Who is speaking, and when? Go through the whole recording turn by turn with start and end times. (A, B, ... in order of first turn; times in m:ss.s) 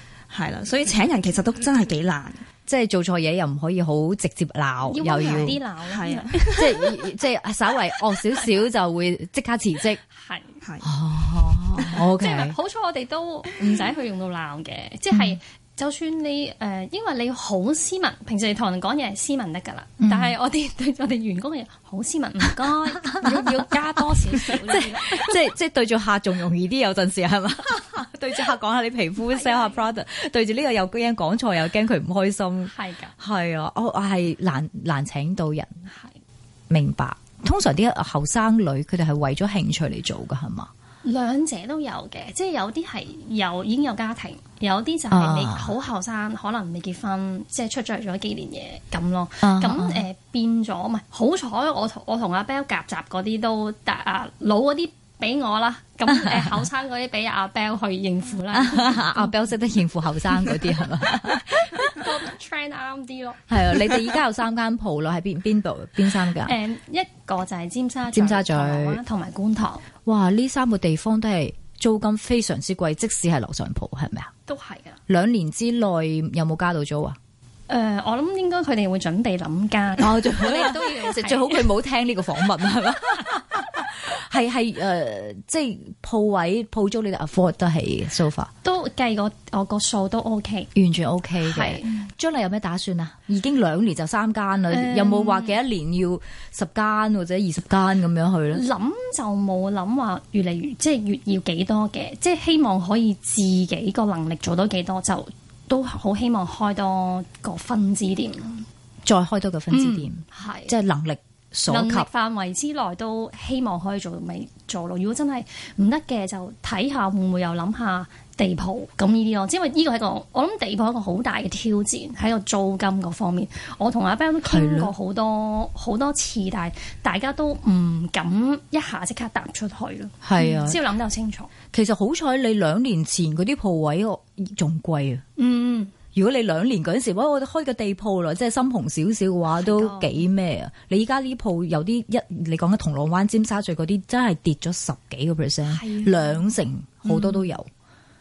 0:00.3-0:02.4 A
0:02.7-0:05.6 B
0:04.9-0:06.8 C
0:05.1-0:06.7 A
0:06.6-0:10.0 B
0:10.1-0:10.6 C
0:10.6-0:10.9 A
0:10.8-0:12.6 B
0:11.8-0:25.3 C
0:15.1-0:15.4 B
0:20.0-0:20.4 B
0:23.1-0:23.7 B
0:24.5-0:35.7 B
0:29.3-0:29.9 C
0:32.7-0:33.1 C
0:35.9-0:36.2 C
0:36.7-0:40.7 B
0:41.0-0:59.4 C
0:45.1-0:45.8 B
0:49.4-0:50.0 B
0:58.5-1:01.9 B
1:01.6-1:03.6 C
1:03.5-1:06.6 B
1:06.4-1:09.8 C
1:08.1-1:09.0 B
1:10.0-1:14.3 B
1:14.5-1:15.0 C
1:15.1-1:17.2 B
1:17.7-1:21.7 C
1:20.0-1:28.5 B
1:28.6-1:30.7 C
1:30.8-1:38.6 B
1:31.4-1:32.1 C
1:34.7-1:35.6 C
1:38.5-1:48.7 C
1:49.0-1:52.1 B
1:49.7-1:50.8 C
1:51.7-2:11.5 C
2:04.4-2:04.9 B
2:10.2-2:10.8 B
2:11.7-2:15.2 B
2:15.4-2:15.9 C
2:16.1-2:27.7 B
2:19.6-2:20.2 C
2:25.7-2:27.6 C